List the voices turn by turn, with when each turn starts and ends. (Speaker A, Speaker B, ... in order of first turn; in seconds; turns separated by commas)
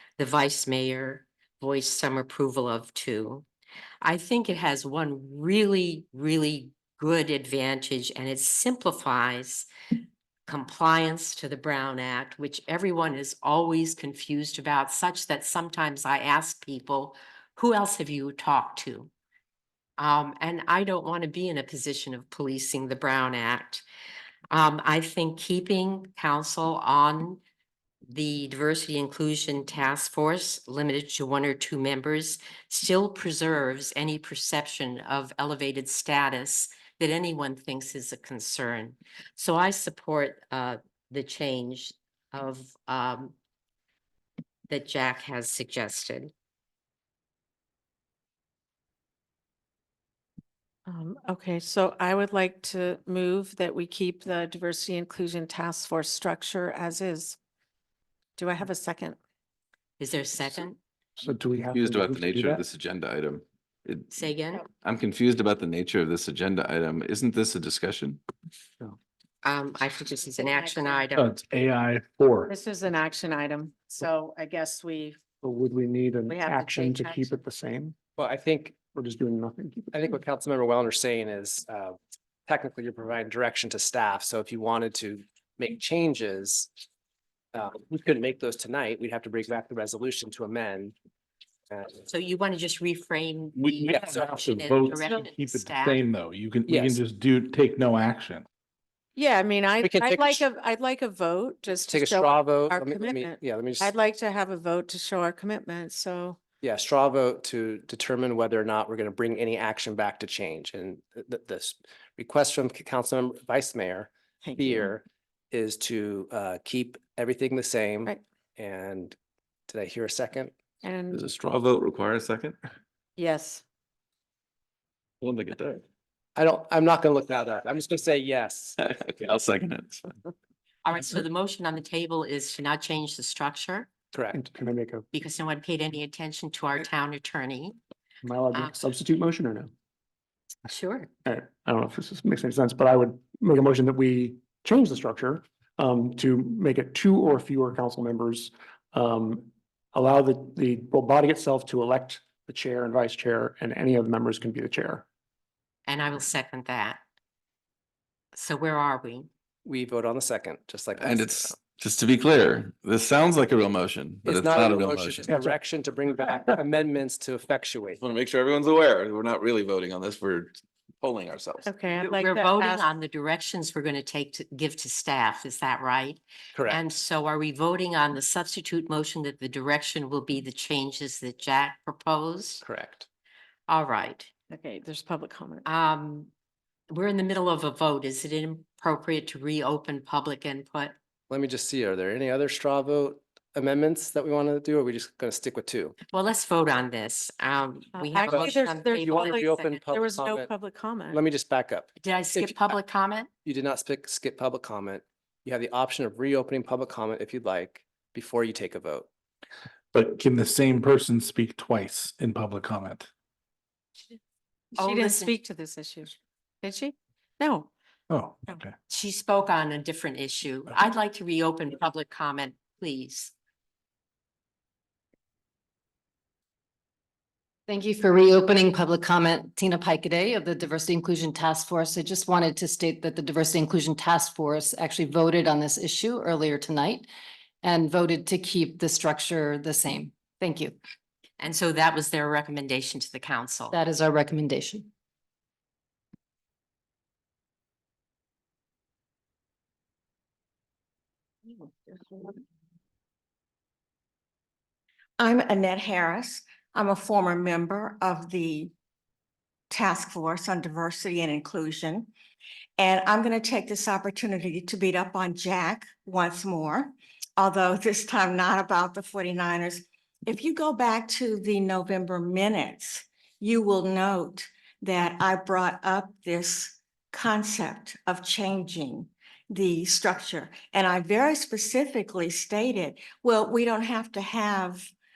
Speaker A: 0.2-3.4, Speaker A: 4.0-9.7, Speaker A: 10.5-19.1, Speaker A: 20.0-23.8, Speaker A: 24.5-27.4, Speaker A: 28.1-43.3, Speaker A: 44.7-46.3, Speaker B: 50.9-57.4, Speaker B: 58.4-59.2, Speaker A: 60.0-60.8, Speaker C: 61.2-62.6, Speaker D: 61.7-64.1, Speaker A: 64.1-64.6, Speaker D: 64.8-68.2, Speaker A: 69.4-71.3, Speaker B: 70.3-71.1, Speaker E: 71.2-72.5, Speaker B: 72.5-75.2, Speaker C: 75.4-78.0, Speaker B: 76.3-77.3, Speaker F: 78.2-78.8, Speaker C: 78.9-80.0, Speaker F: 79.9-82.0, Speaker F: 82.5-86.7, Speaker F: 87.5-90.9, Speaker F: 91.7-92.0, Speaker A: 92.1-96.0, Speaker E: 93.5-98.5, Speaker F: 93.9-94.3, Speaker F: 96.7-97.0, Speaker B: 99.2-106.4, Speaker F: 99.8-100.5, Speaker F: 101.8-103.9, Speaker F: 106.6-119.2, Speaker B: 114.4-114.9, Speaker F: 119.7-120.5, Speaker B: 120.8-121.2, Speaker D: 121.1-122.6, Speaker B: 123.2-123.6, Speaker D: 125.2-125.8, Speaker F: 126.3-128.8, Speaker D: 128.8-130.2, Speaker A: 130.8-133.9, Speaker C: 134.3-135.0, Speaker A: 135.1-137.8, Speaker C: 138.2-139.7, Speaker A: 138.5-138.9, Speaker A: 140.7-141.1, Speaker C: 141.2-155.0, Speaker A: 155.8-157.0, Speaker A: 158.3-159.3, Speaker F: 159.6-161.6, Speaker D: 161.0-165.3, Speaker F: 164.2-168.0, Speaker C: 165.2-165.6, Speaker D: 168.0-171.7, Speaker B: 171.6-172.8, Speaker A: 172.0-182.6, Speaker F: 176.5-176.9, Speaker F: 182.6-183.1, Speaker A: 183.7-184.3, Speaker B: 184.5-185.7, Speaker A: 185.6-186.3, Speaker A: 186.9-190.9, Speaker F: 191.3-195.9, Speaker A: 196.1-199.8, Speaker B: 197.9-201.2, Speaker F: 198.2-200.5, Speaker F: 201.1-202.8, Speaker A: 202.0-203.3, Speaker F: 203.4-209.1, Speaker E: 209.9-213.1, Speaker B: 214.7-217.7, Speaker A: 214.8-215.3, Speaker E: 218.1-218.7, Speaker A: 218.9-223.3, Speaker G: 227.7-237.1, Speaker G: 237.6-240.8, Speaker A: 241.4-243.7, Speaker G: 243.7-244.9, Speaker H: 255.2-258.7, Speaker H: 259.7-262.1, Speaker H: 262.8-284.9